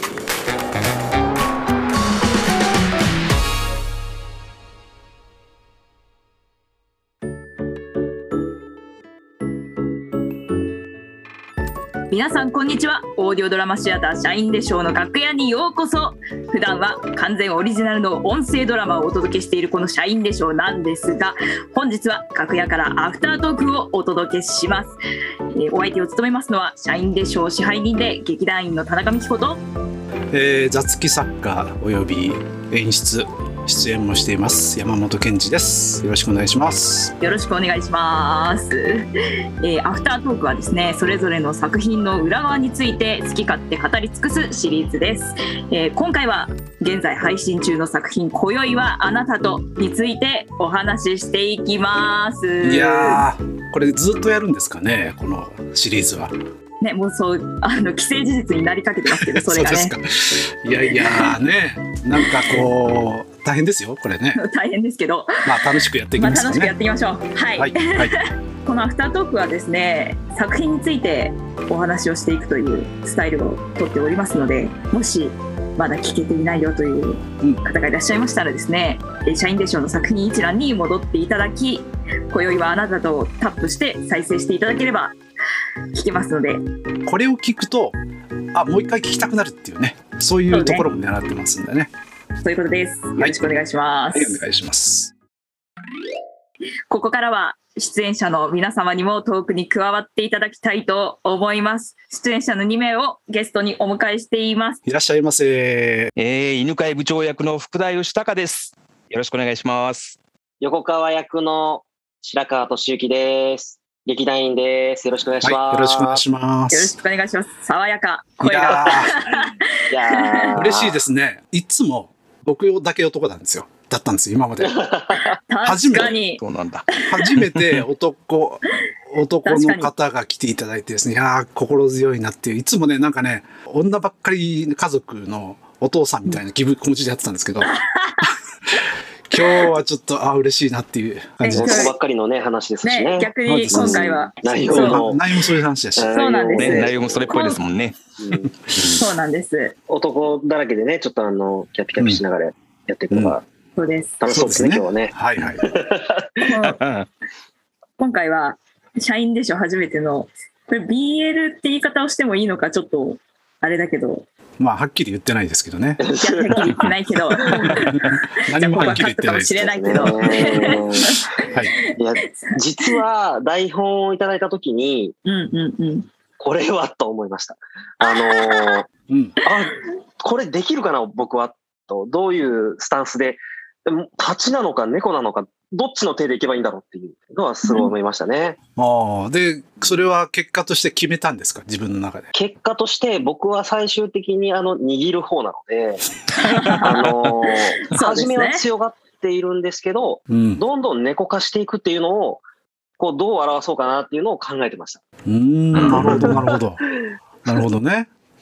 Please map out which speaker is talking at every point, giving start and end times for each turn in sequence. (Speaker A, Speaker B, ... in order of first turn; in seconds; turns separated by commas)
Speaker A: 12.1-25.0, Speaker A: 25.6-29.6, Speaker B: 30.3-37.1, Speaker A: 37.2-39.0, Speaker A: 39.6-53.2, Speaker B: 52.6-56.3, Speaker A: 56.8-59.9, Speaker B: 59.1-64.4, Speaker A: 60.9-61.4, Speaker A: 62.1-62.7, Speaker A: 64.3-65.4, Speaker B: 65.4-66.7, Speaker A: 66.2-68.1, Speaker B: 67.5-68.1, Speaker A: 68.6-85.2, Speaker A: 85.9-86.6, Speaker B: 87.0-88.0, Speaker B: 88.5-91.9, Speaker A: 90.5-90.8, Speaker A: 92.4-94.4, Speaker B: 94.1-95.1, Speaker A: 96.9-104.8, Speaker B: 104.8-106.1, Speaker C: 106.2-110.2, Speaker D: 110.6-116.2, Speaker B: 115.4-116.9, Speaker A: 116.7-120.5, Speaker B: 118.4-119.2, Speaker D: 119.9-121.0, Speaker B: 120.5-124.8, Speaker D: 124.6-125.4, Speaker A: 125.5-126.4, Speaker B: 125.6-126.2, Speaker C: 126.4-127.8, Speaker B: 127.0-138.3, Speaker A: 129.4-129.9, Speaker A: 137.6-138.3, Speaker B: 139.3-141.8, Speaker A: 139.4-139.7, Speaker A: 141.4-141.9, Speaker D: 141.5-145.2, Speaker A: 142.8-145.0, Speaker B: 143.4-144.0, Speaker B: 144.6-146.2, Speaker D: 146.0-147.4, Speaker A: 146.1-147.6, Speaker C: 146.6-147.9, Speaker D: 148.2-148.5, Speaker B: 148.7-148.9, Speaker A: 148.9-149.7, Speaker D: 149.9-153.4, Speaker B: 152.0-152.2, Speaker B: 153.1-153.4, Speaker A: 153.8-154.1, Speaker D: 154.2-156.3, Speaker B: 154.3-155.6, Speaker A: 156.4-156.8, Speaker C: 156.6-157.1, Speaker A: 158.0-164.2, Speaker B: 164.6-166.0, Speaker D: 166.0-167.8, Speaker A: 166.2-171.8, Speaker B: 167.4-170.6, Speaker D: 169.6-171.2, Speaker D: 172.0-175.2, Speaker A: 175.2-176.1, Speaker D: 176.4-178.9, Speaker A: 178.0-178.8, Speaker B: 179.1-179.4, Speaker D: 179.4-188.6, Speaker A: 187.6-187.9, Speaker B: 188.8-192.3, Speaker D: 192.3-196.0, Speaker A: 196.3-197.1, Speaker D: 196.6-202.4, Speaker A: 197.9-198.7, Speaker B: 200.3-200.6, Speaker D: 203.0-205.0, Speaker B: 205.2-206.8, Speaker D: 205.7-206.6, Speaker B: 207.4-208.1